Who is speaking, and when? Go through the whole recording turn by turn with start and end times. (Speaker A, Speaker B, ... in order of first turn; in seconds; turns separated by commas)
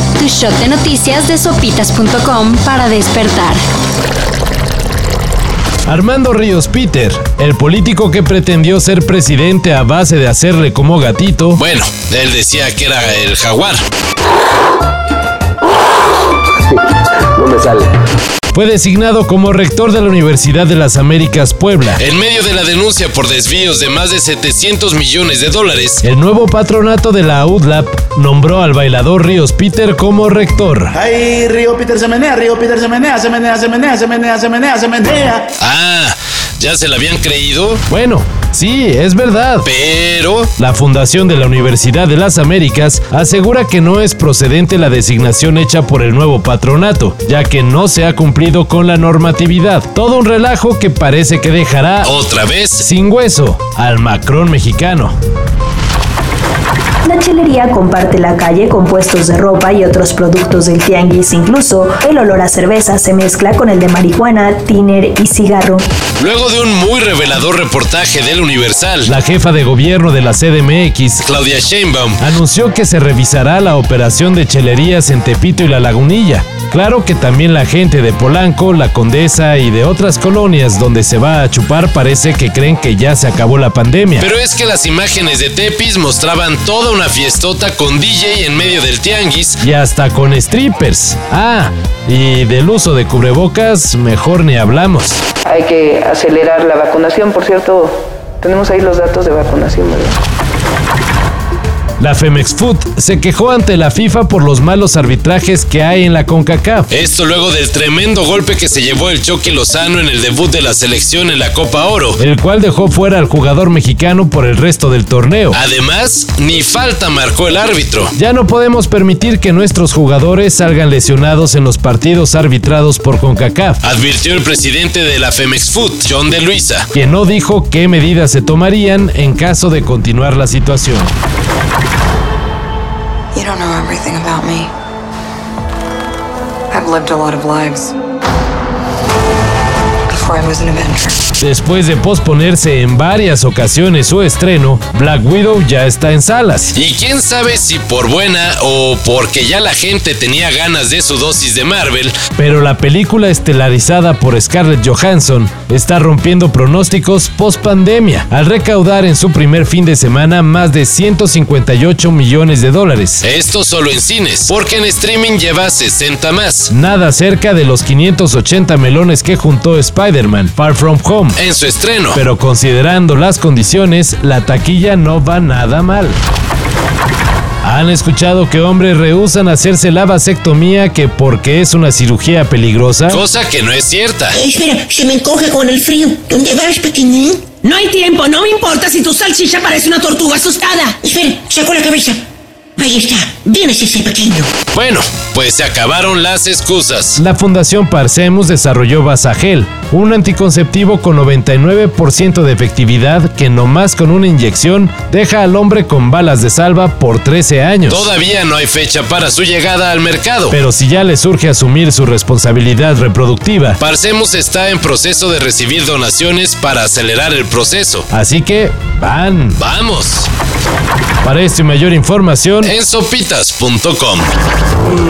Speaker A: 0.2-3.6, Speaker B: 5.9-11.6, Speaker C: 11.6-13.8, Speaker B: 18.5-22.0, Speaker C: 22.0-26.0, Speaker B: 26.0-30.9, Speaker D: 31.0-35.5, Speaker C: 35.6-37.8, Speaker B: 37.9-39.7, Speaker C: 39.6-40.5, Speaker B: 40.6-52.1, Speaker C: 52.0-52.8, Speaker B: 52.8-55.1, Speaker E: 57.0-65.8, Speaker C: 66.2-69.1, Speaker B: 69.0-71.2, Speaker C: 71.2-72.2, Speaker B: 72.2-84.3, Speaker C: 84.2-89.6, Speaker B: 89.6-95.2, Speaker F: 95.5-100.2, Speaker B: 102.0-106.9, Speaker C: 106.9-112.2, Speaker B: 112.2-115.6, Speaker C: 115.5-118.1, Speaker B: 118.1-123.8, Speaker C: 123.8-126.9, Speaker B: 126.9-131.1, Speaker G: 133.3-134.7, Speaker G: 136.7-137.9, Speaker G: 140.1-141.2, Speaker B: 141.4-146.7, Speaker C: 146.7-152.2, Speaker B: 152.3-163.2, Speaker C: 163.2-166.7, Speaker B: 166.7-171.4, Speaker C: 171.3-172.2, Speaker B: 172.1-176.2, Speaker B: 177.6-183.2, Speaker C: 183.1-184.4, Speaker H: 184.3-192.2, Speaker H: 192.8-194.5, Speaker C: 194.7-197.2, Speaker B: 197.1-208.1, Speaker C: 207.9-210.6, Speaker B: 210.5-213.8, Speaker C: 213.8-218.1, Speaker B: 218.1-219.6, Speaker C: 219.6-220.3, Speaker B: 221.2-222.7, Speaker C: 222.6-224.3